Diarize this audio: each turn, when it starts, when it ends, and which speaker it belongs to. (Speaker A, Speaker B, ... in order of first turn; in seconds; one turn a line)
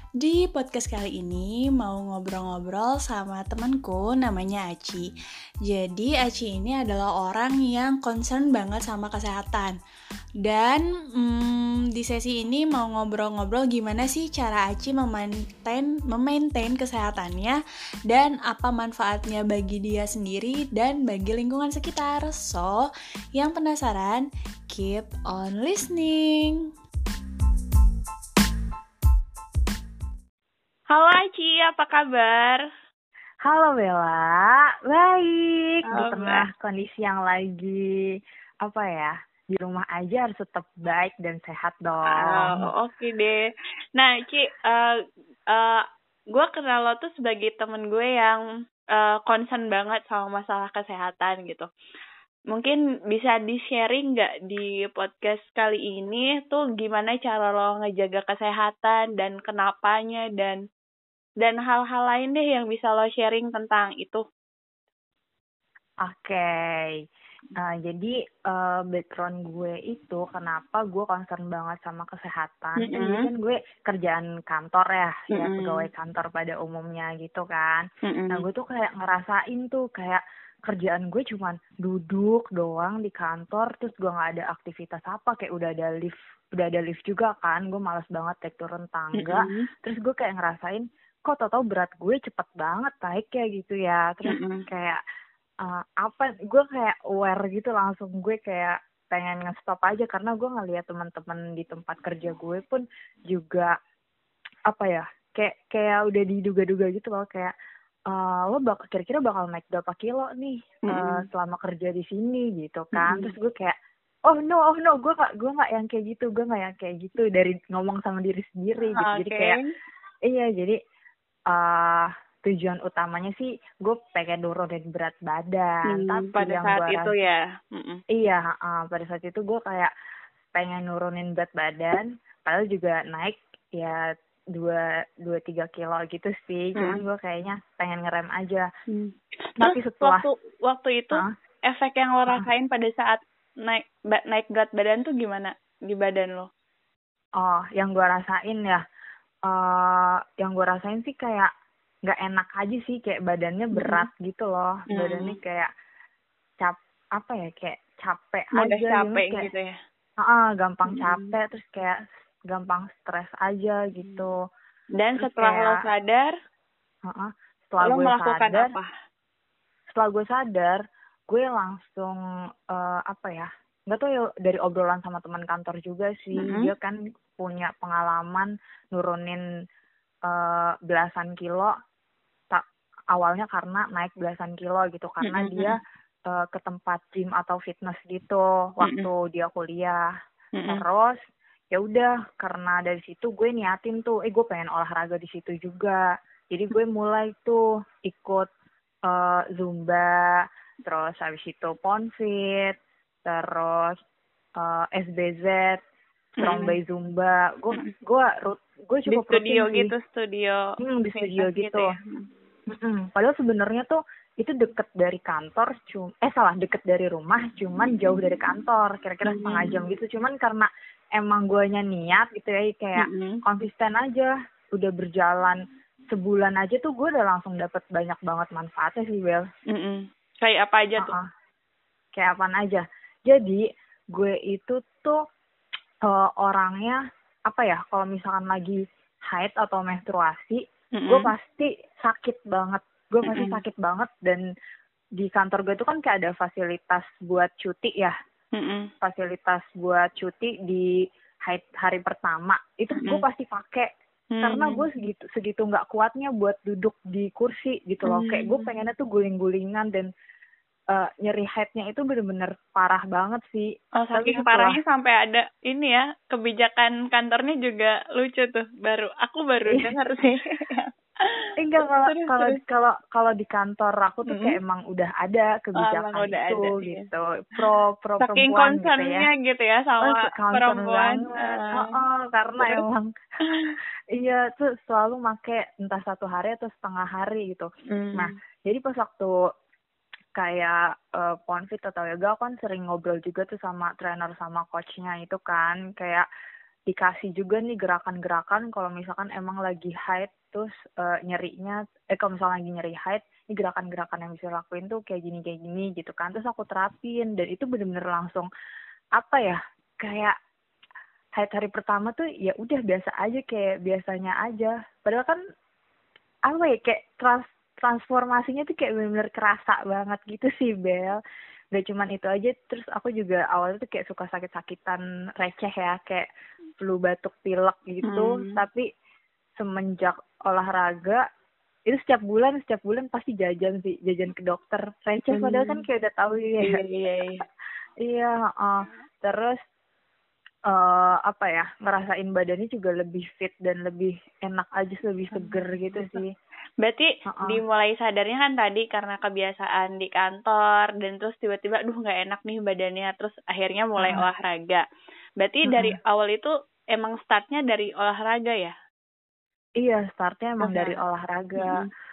Speaker A: 0.2-5.1
Speaker A: 5.7-9.8
Speaker A: 10.4-17.6
Speaker A: 18.1-26.7
Speaker A: 30.9-32.6
Speaker B: 33.5-38.0
Speaker A: 35.9-36.5
Speaker B: 38.6-42.7
Speaker A: 42.1-44.9
Speaker A: 45.5-48.4
Speaker A: 48.9-51.7
Speaker A: 52.5-60.6
Speaker A: 61.4-64.2
Speaker B: 66.0-67.0
Speaker B: 67.6-95.0
Speaker A: 72.8-73.3
Speaker A: 75.3-75.9
Speaker A: 78.0-78.5
Speaker A: 89.2-89.7
Speaker A: 94.2-94.7
Speaker B: 95.6-103.7
Speaker B: 104.7-107.5
Speaker B: 108.1-113.8
Speaker A: 110.9-111.3
Speaker A: 112.9-113.3
Speaker B: 114.3-119.6
Speaker A: 118.9-119.6
Speaker B: 120.3-120.8
Speaker B: 121.5-127.1
Speaker A: 125.9-128.0
Speaker B: 128.1-129.9
Speaker B: 130.5-138.7
Speaker A: 136.8-137.0
Speaker A: 138.9-146.5
Speaker B: 139.6-140.3
Speaker B: 147.4-148.8
Speaker B: 149.5-151.5
Speaker B: 152.1-155.7
Speaker A: 153.7-154.1
Speaker A: 154.9-155.4
Speaker B: 156.6-159.5
Speaker A: 158.6-159.8
Speaker B: 160.2-164.4
Speaker A: 160.9-161.3
Speaker A: 165.0-166.3
Speaker B: 165.2-165.9
Speaker B: 167.1-168.8
Speaker A: 167.8-168.9
Speaker B: 169.9-172.2
Speaker B: 172.7-179.4
Speaker A: 176.3-176.7
Speaker B: 180.3-181.7
Speaker B: 182.5-185.8
Speaker A: 185.2-185.8
Speaker B: 186.3-190.0
Speaker A: 188.8-189.1
Speaker A: 190.6-190.8
Speaker B: 190.7-191.2
Speaker B: 191.7-198.5
Speaker B: 199.1-204.0
Speaker B: 204.6-205.8
Speaker A: 206.4-206.8
Speaker B: 206.4-209.9
Speaker A: 209.1-212.3
Speaker B: 210.8-211.9
Speaker B: 212.7-229.5
Speaker A: 219.2-219.8
Speaker A: 223.0-223.4
Speaker A: 229.7-231.1
Speaker B: 231.0-231.3
Speaker B: 232.1-235.2
Speaker B: 236.1-244.4
Speaker A: 241.0-241.3
Speaker A: 243.2-243.6
Speaker B: 245.2-248.1
Speaker A: 248.6-248.9
Speaker B: 249.0-250.9
Speaker B: 251.5-253.9
Speaker A: 252.9-253.2
Speaker A: 254.3-254.8
Speaker B: 254.4-260.1
Speaker A: 258.1-258.7
Speaker B: 260.9-264.8
Speaker A: 264.0-272.6
Speaker B: 271.6-279.3
Speaker A: 274.3-274.6
Speaker A: 275.8-277.1
Speaker A: 278.2-281.9
Speaker B: 280.0-283.1
Speaker A: 283.5-283.8
Speaker B: 284.1-289.3
Speaker A: 287.9-288.3
Speaker B: 290.4-296.2
Speaker B: 296.9-308.5
Speaker B: 309.2-310.4
Speaker B: 311.4-315.4
Speaker B: 316.5-321.2
Speaker B: 321.7-326.3
Speaker B: 326.8-328.9
Speaker A: 328.0-328.6
Speaker B: 329.6-331.2
Speaker B: 331.9-336.8
Speaker A: 335.3-335.8
Speaker A: 336.6-337.4
Speaker B: 338.0-339.6
Speaker B: 340.7-346.3
Speaker A: 345.3-346.2
Speaker A: 346.8-354.9
Speaker B: 347.3-347.6
Speaker B: 354.0-354.3
Speaker A: 355.4-358.7
Speaker B: 355.7-355.9
Speaker B: 359.8-361.9
Speaker A: 360.6-361.0
Speaker A: 361.6-361.9